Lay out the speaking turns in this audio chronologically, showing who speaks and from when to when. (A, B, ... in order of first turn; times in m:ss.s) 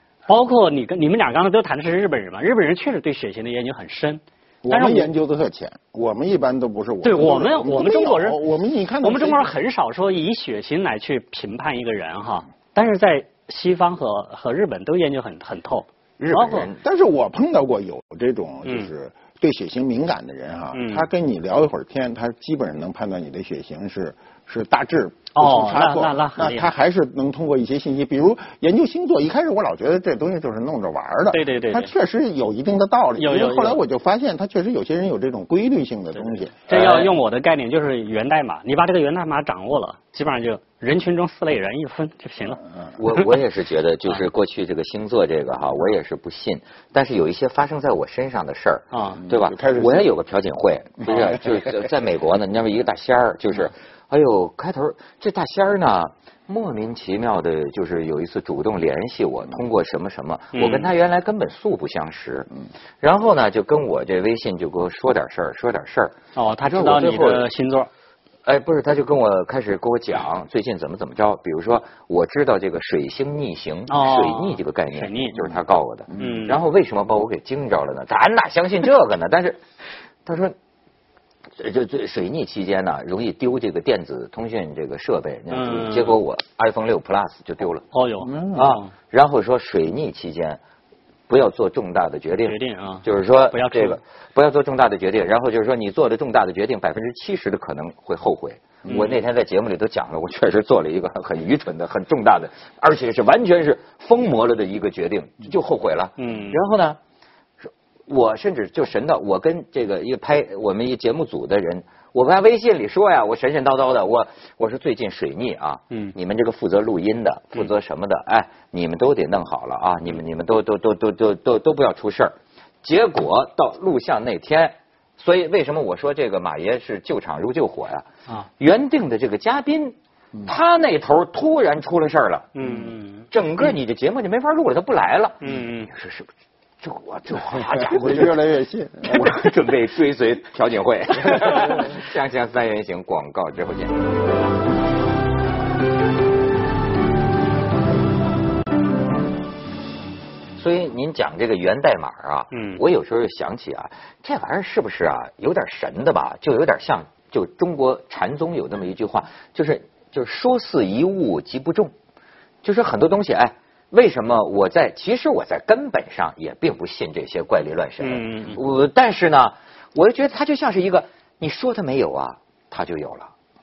0:00.3-0:05.1 A
0:04.6-0:09.5 B
0:07.0-0:08.4 A
0:09.0-0:16.7 A
0:16.2-0:16.8 C
0:16.8-0:36.6 B
0:20.7-0:21.1 A
0:25.3-0:26.7 A
0:31.3-0:31.9 A
0:33.2-0:33.8 A
0:36.6-0:42.6 A
0:36.7-0:37.1 C
0:43.0-1:02.5 C
0:48.9-0:49.2 A
0:49.2-0:50.1 B
1:00.5-1:00.9 A
1:03.0-1:07.4 C
1:06.3-1:07.9 A
1:08.4-1:19.6 C
1:13.9-1:15.4 A
1:16.1-1:16.5 B
1:16.2-1:16.6 A
1:20.2-1:20.6 C
1:21.6-1:27.8 C
1:25.5-1:26.2 A
1:27.9-1:28.9 A
1:28.2-1:28.6 B
1:28.5-1:30.6 C
1:31.3-1:47.0 C
1:32.4-1:34.0 A
1:38.8-1:39.2 A
1:46.2-1:46.6 A
1:47.6-2:08.1 C
2:08.6-2:12.5 C
2:12.5-2:13.3 A
2:13.3-2:16.3 C
2:15.4-2:15.9 A
2:16.8-2:18.4 C
2:17.7-2:19.5 B
2:19.0-2:23.9 C
2:30.6-2:41.9 C
2:32.5-2:32.8 A
2:42.6-2:53.3 C
2:48.0-2:48.6 A